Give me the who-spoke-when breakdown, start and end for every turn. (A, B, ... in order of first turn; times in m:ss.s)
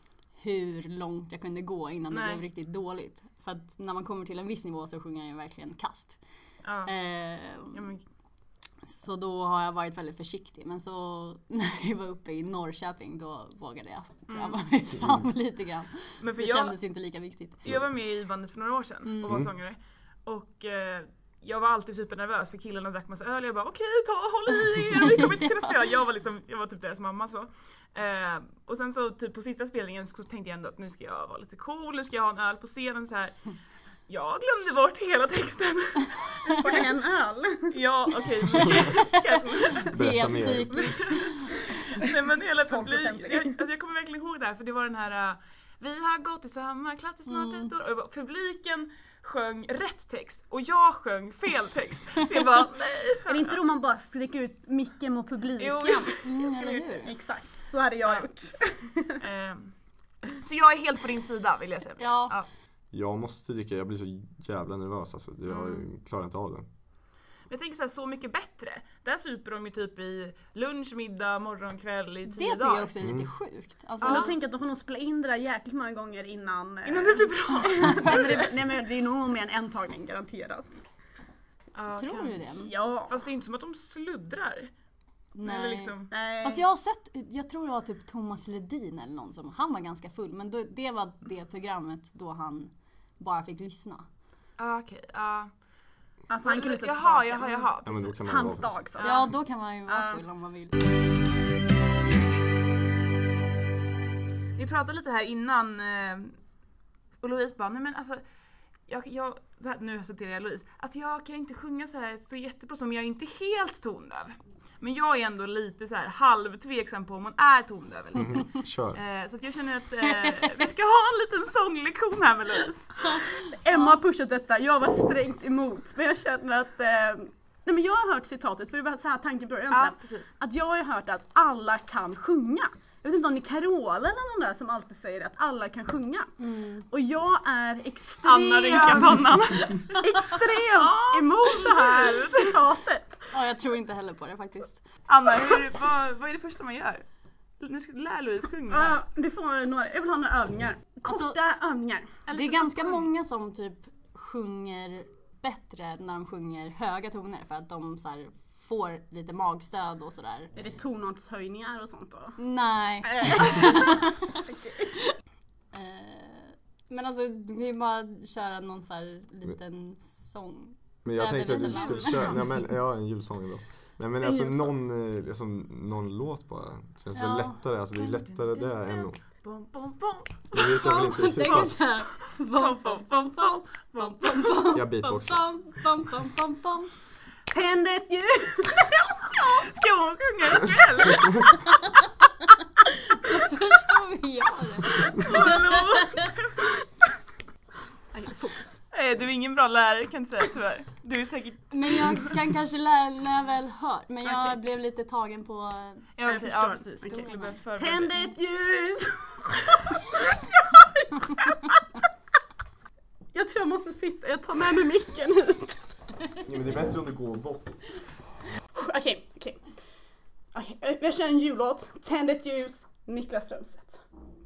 0:00.4-0:06.2 A
0:02.1-0:02.4 B
0:06.6-0:06.9 B
0:06.8-0:07.9 A
0:07.7-0:08.0 B
0:08.8-0:17.6 A
0:14.3-0:14.6 B
0:16.2-0:16.8 B
0:17.6-0:33.4 B
0:19.0-0:19.4 A
0:34.1-0:36.9 B
0:36.5-0:37.8 C
0:37.7-0:39.9 B
0:38.5-0:41.5 A
0:39.9-0:40.9 D
0:40.7-0:53.6 B
0:42.7-0:43.6 C
0:47.3-0:47.7 A
0:53.3-0:56.1 C
0:55.6-0:57.1 B
0:56.2-0:57.1 A
0:57.1-0:59.2 C
0:59.2-0:59.7 B
1:00.2-1:02.5 B
1:02.0-1:02.4 A
1:02.9-1:06.6 D
1:05.5-1:05.8 B
1:07.5-1:12.9 B
1:12.3-1:14.3 A
1:13.0-1:13.3 D
1:14.0-1:14.3 B
1:14.0-1:20.7 C
1:16.8-1:18.5 B
1:21.7-1:22.4 B
1:22.0-1:22.7 A
1:22.6-1:23.1 C
1:23.1-1:24.7 B
1:25.3-1:34.0 A
1:25.4-1:26.1 B
1:26.1-1:26.6 C
1:34.6-1:35.5 B
1:36.3-1:39.2 C
1:36.4-1:38.2 B
1:37.8-1:38.7 D
1:39.0-1:39.3 B
1:39.0-1:40.8 A
1:39.9-1:40.2 C
1:44.6-1:46.4 B
1:47.2-1:48.2 B
1:48.9-2:03.4 B
1:58.1-1:59.0 D
2:00.2-2:00.5 A
2:03.4-2:16.3 C
2:09.7-2:10.3 B
2:16.4-2:16.8 A
2:16.9-2:23.2 C
2:18.2-2:22.6 B
2:23.3-2:24.8 A
2:25.1-2:27.0 B
2:27.6-2:29.0 B
2:28.7-2:32.1 C
2:32.3-2:33.0 B
2:32.3-2:40.5 A
2:40.6-2:42.3 C
2:42.4-2:44.4 A
2:43.2-2:43.7 B
2:43.3-2:44.9 C
2:45.7-2:52.5 A
2:51.0-2:59.2 D
2:57.1-2:57.6 A
2:58.0-3:01.8 B
3:00.5-3:01.8 D
3:00.6-3:06.9 A
3:02.3-3:04.5 B
3:04.7-3:05.4 D
3:07.5-3:09.6 C
3:09.3-3:11.6 B
3:11.7-3:12.5 A
3:13.1-3:16.3 A
3:15.0-3:16.5 B
3:18.1-3:18.8 C
3:18.9-3:22.3 B
3:21.7-3:26.1 A
3:24.2-3:24.6 C
3:26.2-3:28.1 B
3:26.2-3:31.8 C
3:33.3-3:35.8 C
3:36.4-3:37.8 D
3:38.7-3:39.6 C
3:40.5-3:44.0 C